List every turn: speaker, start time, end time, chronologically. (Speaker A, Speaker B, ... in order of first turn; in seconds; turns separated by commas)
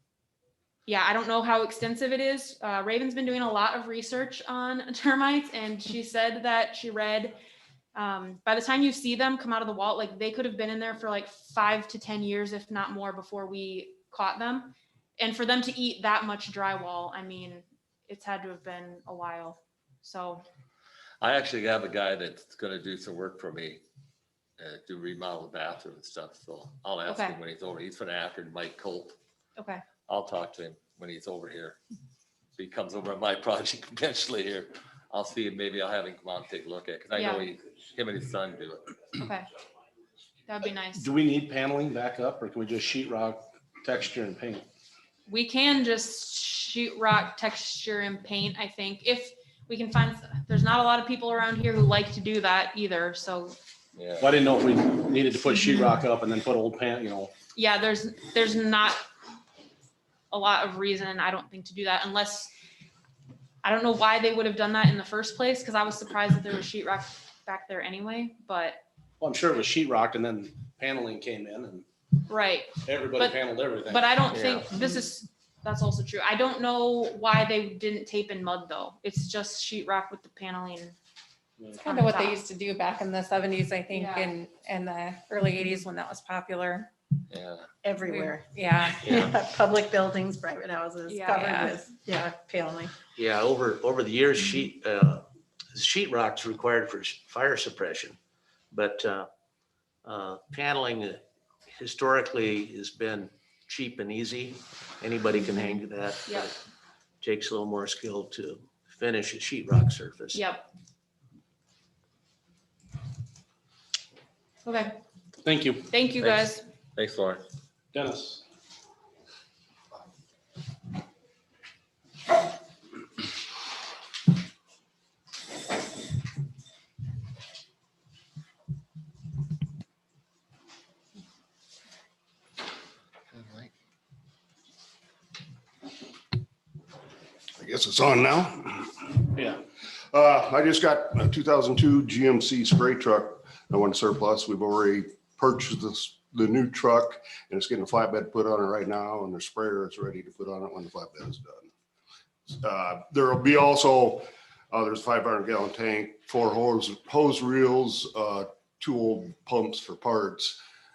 Speaker A: 0.9-7.3, Speaker A: 7.9-20.4, Speaker B: 21.2-23.8, Speaker B: 24.6-29.1, Speaker A: 27.1-27.4, Speaker A: 29.6-29.8, Speaker B: 30.1-31.8, Speaker B: 32.5-38.9, Speaker A: 37.1-37.4, Speaker A: 39.2-39.5, Speaker A: 40.5-41.1, Speaker C: 40.9-44.6, Speaker A: 45.3-53.5, Speaker B: 54.0-54.3, Speaker C: 54.2-57.3, Speaker A: 57.5-59.0, Speaker A: 60.3-62.5, Speaker A: 63.6-68.8, Speaker C: 69.2-71.8, Speaker A: 72.3-81.0, Speaker C: 72.8-74.2, Speaker D: 74.3-74.6, Speaker E: 81.8-86.9, Speaker A: 81.8-82.4, Speaker A: 83.9-84.3, Speaker B: 87.3-87.7, Speaker F: 87.8-88.4, Speaker E: 88.0-89.1, Speaker D: 89.0-89.3, Speaker F: 89.1-92.9, Speaker E: 91.1-91.8, Speaker D: 93.2-98.2, Speaker D: 98.7-99.3, Speaker D: 100.0-106.6, Speaker A: 106.2-106.5, Speaker D: 107.2-110.4, Speaker A: 110.3-110.7, Speaker A: 114.6-114.9, Speaker C: 115.4-115.9, Speaker A: 115.9-116.6, Speaker B: 116.2-117.4, Speaker C: 117.9-118.4, Speaker B: 133.3-133.7, Speaker G: 137.6-139.1, Speaker C: 139.3-139.6, Speaker G: 140.1-151.7, Speaker G: 152.5-160.6